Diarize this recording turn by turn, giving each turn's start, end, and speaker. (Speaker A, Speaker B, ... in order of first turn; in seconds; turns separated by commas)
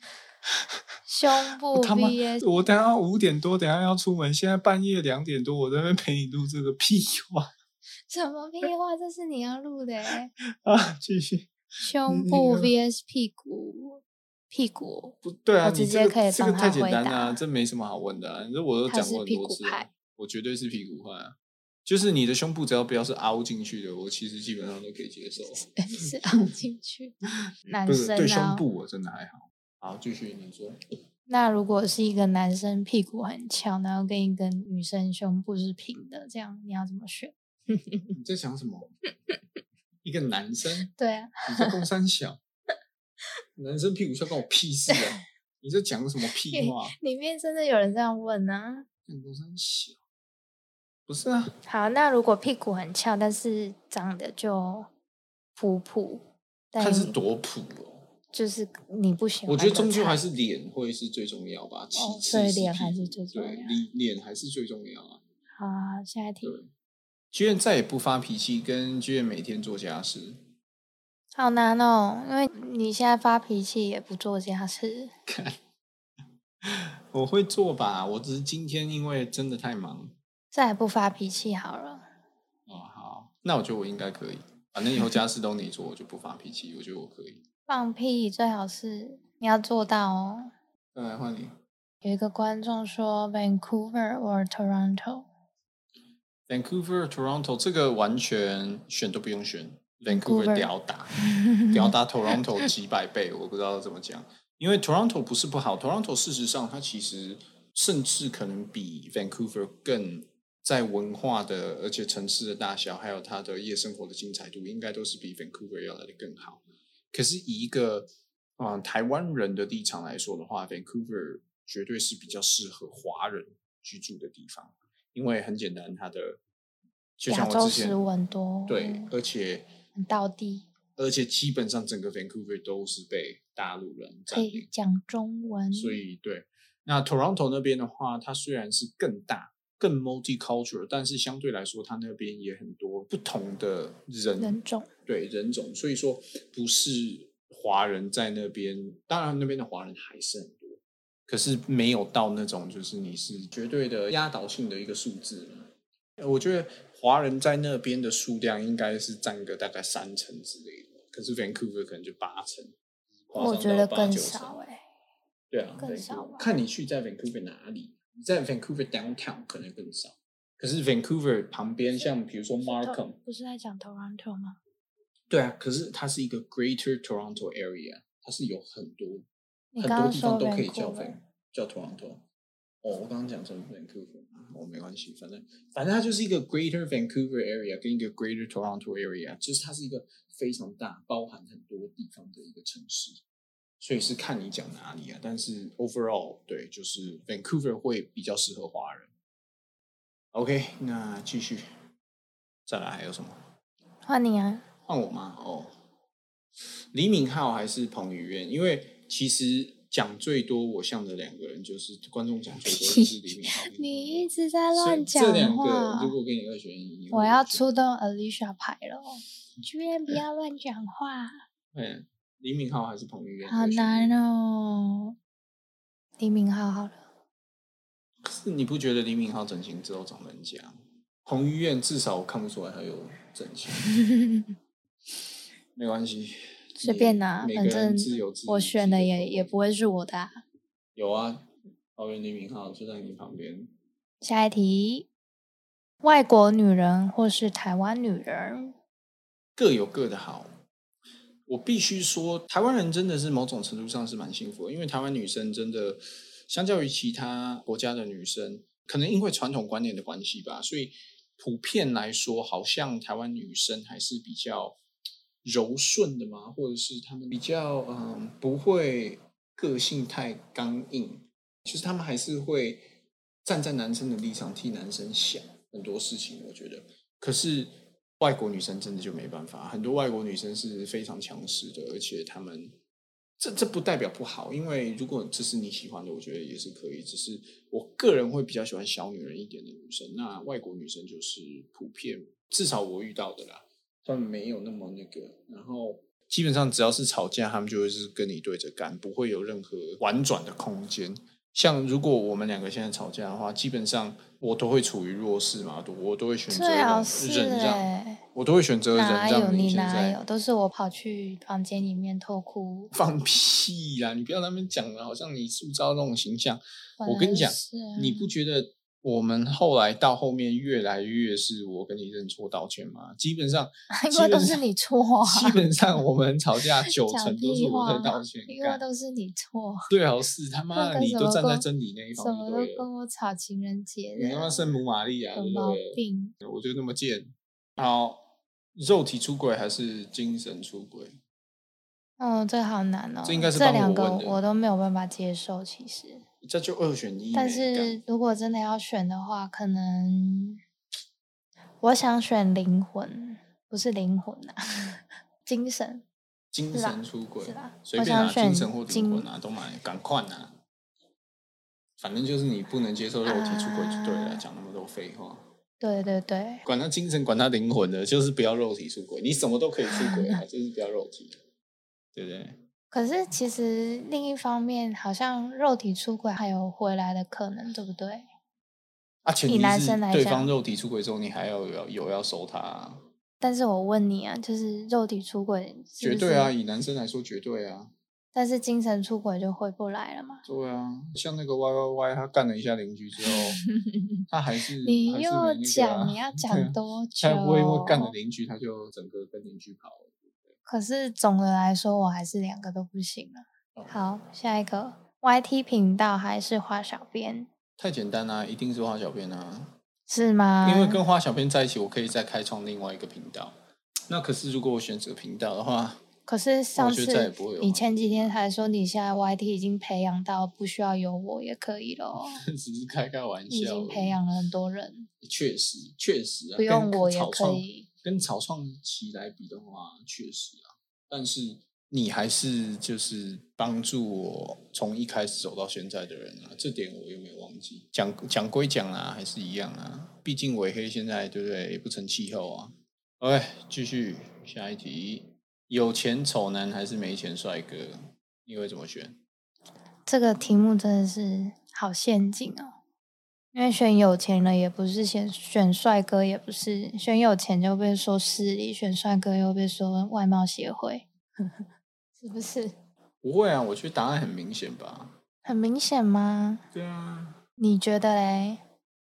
Speaker A: 1.1-2.6, Speaker B: 1.7-7.5, Speaker A: 8.1-10.3, Speaker B: 10.4-11.5, Speaker A: 11.8-17.4, Speaker B: 12.1-12.7, Speaker B: 15.2-26.2, Speaker A: 18.9-19.9, Speaker A: 25.5-27.1, Speaker A: 27.7-28.6, Speaker B: 27.9-30.8, Speaker A: 31.3-38.1, Speaker B: 38.1-38.9, Speaker B: 40.0-40.9, Speaker A: 40.9-41.8, Speaker B: 41.4-42.4, Speaker B: 43.5-46.9, Speaker A: 44.9-45.2, Speaker A: 46.5-48.9, Speaker B: 49.1-50.0, Speaker B: 51.1-51.5, Speaker A: 51.6-54.9, Speaker A: 55.5-57.2, Speaker B: 56.8-58.0, Speaker A: 58.3-60.2, Speaker B: 59.5-65.2, Speaker A: 61.9-63.8, Speaker A: 65.6-66.6, Speaker B: 66.4-66.7, Speaker B: 67.3-70.4, Speaker A: 71.3-75.1, Speaker B: 75.3-75.6, Speaker B: 76.6-80.1, Speaker A: 80.5-82.0, Speaker B: 82.7-87.4, Speaker A: 87.7-90.5, Speaker B: 90.9-91.5, Speaker A: 92.0-95.3, Speaker B: 96.5-101.2, Speaker A: 100.1-102.7, Speaker B: 101.7-126.4, Speaker B: 127.2-128.0, Speaker A: 127.3-129.1, Speaker B: 128.7-129.7, Speaker A: 129.9-130.7, Speaker B: 130.9-134.7, Speaker A: 134.3-136.0, Speaker B: 135.7-162.7, Speaker A: 144.4-144.9, Speaker B: 163.3-164.6, Speaker A: 163.3-164.8, Speaker B: 165.5-173.2, Speaker A: 165.8-166.5, Speaker A: 172.0-174.6, Speaker B: 175.3-179.2, Speaker A: 179.7-181.2, Speaker B: 179.8-182.2, Speaker B: 182.8-193.2, Speaker B: 193.8-199.1, Speaker B: 200.3-201.6, Speaker B: 202.7-203.4, Speaker A: 204.1-204.6, Speaker B: 204.9-205.7, Speaker B: 206.9-217.6, Speaker A: 212.7-216.2, Speaker A: 217.1-221.4, Speaker B: 221.7-224.2, Speaker A: 223.4-225.1, Speaker A: 226.2-227.0, Speaker B: 228.2-233.9, Speaker A: 233.8-234.5, Speaker B: 235.7-239.5, Speaker A: 236.8-240.4, Speaker B: 240.9-243.7, Speaker A: 244.2-245.1, Speaker A: 246.0-248.7, Speaker B: 249.6-250.5, Speaker B: 251.5-264.8, Speaker B: 265.4-272.9, Speaker B: 273.4-282.8, Speaker B: 283.4-310.2, Speaker A: 306.5-308.2, Speaker A: 308.9-312.9, Speaker B: 312.9-324.6, Speaker A: 317.0-318.3, Speaker A: 323.9-325.8, Speaker B: 325.2-328.8, Speaker A: 326.9-329.9, Speaker B: 329.9-332.9, Speaker A: 330.7-334.7, Speaker B: 334.2-341.2, Speaker A: 335.3-336.3, Speaker A: 342.2-346.2, Speaker B: 343.2-344.4, Speaker B: 346.4-348.0, Speaker A: 347.3-350.6, Speaker A: 351.8-356.0, Speaker B: 356.5-360.6, Speaker A: 356.7-359.3, Speaker B: 362.0-365.4, Speaker A: 363.2-364.4, Speaker A: 365.8-366.6, Speaker B: 366.6-371.4, Speaker A: 369.9-370.4, Speaker B: 372.1-372.6, Speaker A: 372.9-378.2, Speaker B: 379.2-383.0, Speaker A: 379.4-380.5, Speaker A: 383.4-386.5, Speaker B: 386.0-387.9, Speaker A: 388.3-390.4, Speaker B: 390.4-393.6, Speaker A: 393.2-393.9, Speaker B: 394.3-400.5, Speaker A: 394.8-398.1, Speaker A: 400.6-407.5, Speaker B: 407.8-409.8, Speaker A: 410.1-411.0, Speaker B: 410.6-413.6, Speaker B: 414.1-416.0, Speaker A: 416.2-422.4, Speaker B: 416.8-418.4, Speaker B: 422.3-424.2, Speaker A: 423.5-425.1, Speaker B: 425.2-449.2, Speaker A: 426.6-427.9, Speaker A: 450.1-452.7, Speaker A: 453.5-461.6, Speaker A: 462.2-462.7, Speaker B: 463.2-465.2, Speaker A: 465.4-466.6, Speaker B: 466.7-467.4, Speaker A: 467.6-468.6